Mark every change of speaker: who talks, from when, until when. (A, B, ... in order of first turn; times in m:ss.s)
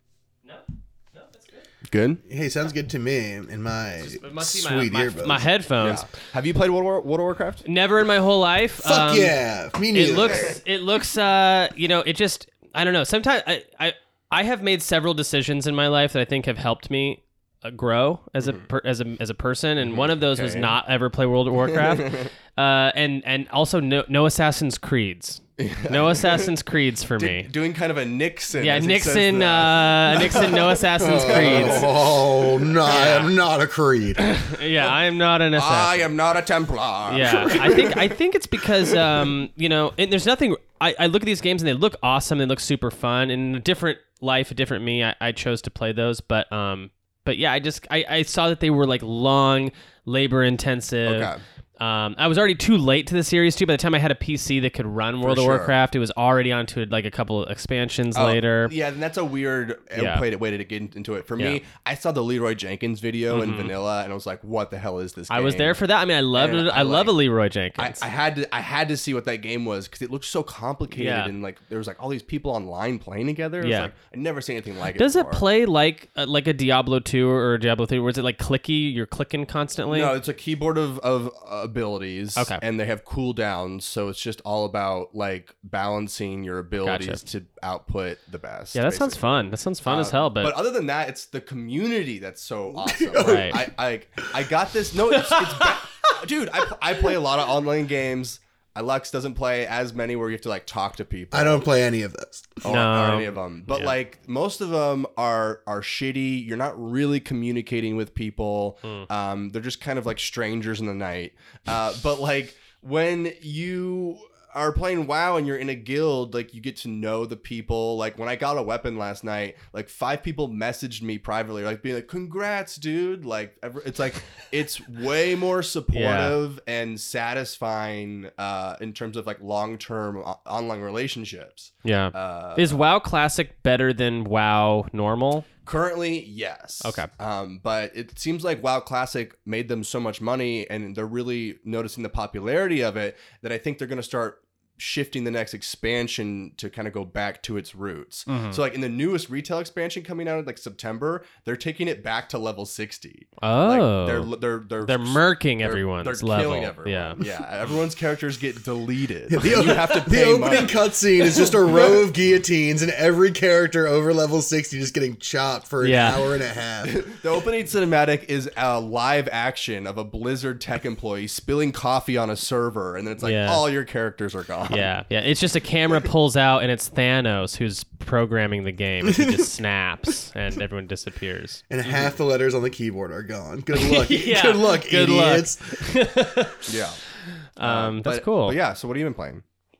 0:00.4-0:01.7 A
0:01.9-0:02.2 B
0:02.3-0:05.5 C
0:04.0-0:06.0 A
0:05.8-0:07.7 B
0:07.6-0:09.4 A
0:08.8-0:10.6 C
0:09.9-0:27.5 A
0:10.2-0:10.6 B
0:19.8-0:20.8 B
0:21.6-0:22.3 B
0:25.6-0:26.5 B
0:27.2-0:33.2 B
0:28.6-0:31.9 A
0:31.0-0:34.2 C
0:32.9-0:33.3 A
0:34.3-0:36.0 A
0:35.6-0:38.0 B
0:37.1-0:58.7 A
0:37.4-0:38.0 C
0:51.1-0:51.4 B
0:55.2-0:55.8 B
0:58.2-1:05.8 B
1:00.0-1:00.2 A
1:03.3-1:03.7 A
1:05.3-1:08.0 A
1:06.3-1:07.2 B
1:07.8-1:15.4 B
1:10.9-1:11.3 A
1:13.6-1:13.9 A
1:14.9-1:20.1 A
1:19.9-1:29.3 B
1:26.8-1:27.2 A
1:28.7-1:30.6 A
1:29.8-1:41.7 B
1:32.8-1:33.7 C
1:33.2-1:33.6 A
1:41.3-1:42.6 C
1:42.6-2:12.8 B
1:42.6-1:44.0 A
2:05.9-2:06.4 A
2:11.8-2:15.5 A
2:15.6-2:40.8 B
2:16.8-2:17.1 A
2:28.3-2:28.6 A
2:33.4-2:34.3 A
2:34.8-2:37.2 A
2:39.3-2:47.0 C
2:41.4-2:42.0 B
2:45.8-2:46.2 A
2:46.8-2:54.9 B
2:53.2-2:53.6 A
2:54.7-3:01.6 A
2:59.0-2:59.4 C
3:01.7-3:06.0 C
3:01.9-3:02.1 B
3:03.7-3:06.7 A
3:06.7-3:07.0 B
3:07.6-3:08.6 A
3:07.6-3:09.4 B